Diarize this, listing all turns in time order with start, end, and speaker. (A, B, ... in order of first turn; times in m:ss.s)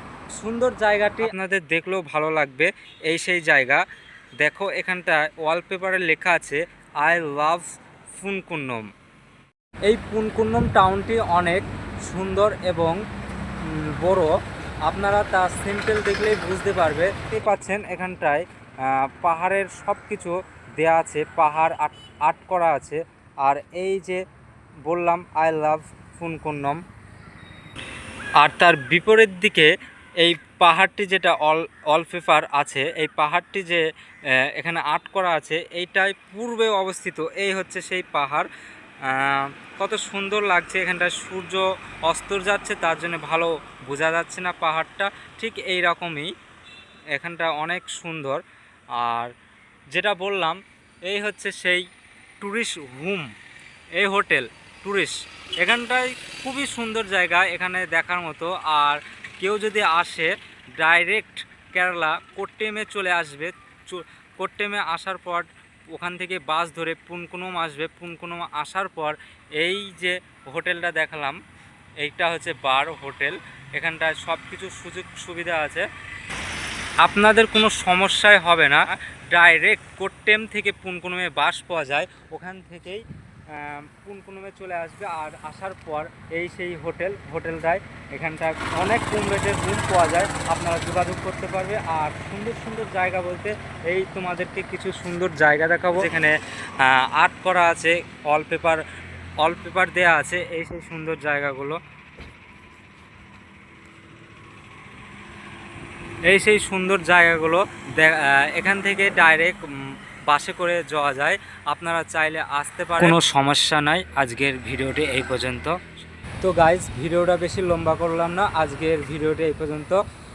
0:00.3-0:03.8 A
0:04.4-0:08.9 A
0:09.8-0:13.0 A
0:13.6-0:14.3 A
0:14.8-0:24.2 A
0:24.8-0:26.8 A
0:28.4-0:33.8 A
0:34.5-0:38.5 A
0:39.0-0:46.3 A
0:47.1-0:48.4 A
0:49.0-0:49.3 A
0:49.9-0:51.8 A
0:52.4-0:53.3 A
0:53.9-1:11.4 A
1:12.0-1:15.8 A
1:17.0-1:38.8 A
1:39.4-1:41.8 A
1:46.3-1:49.6 A
1:50.3-1:55.8 A
1:56.4-2:00.0 A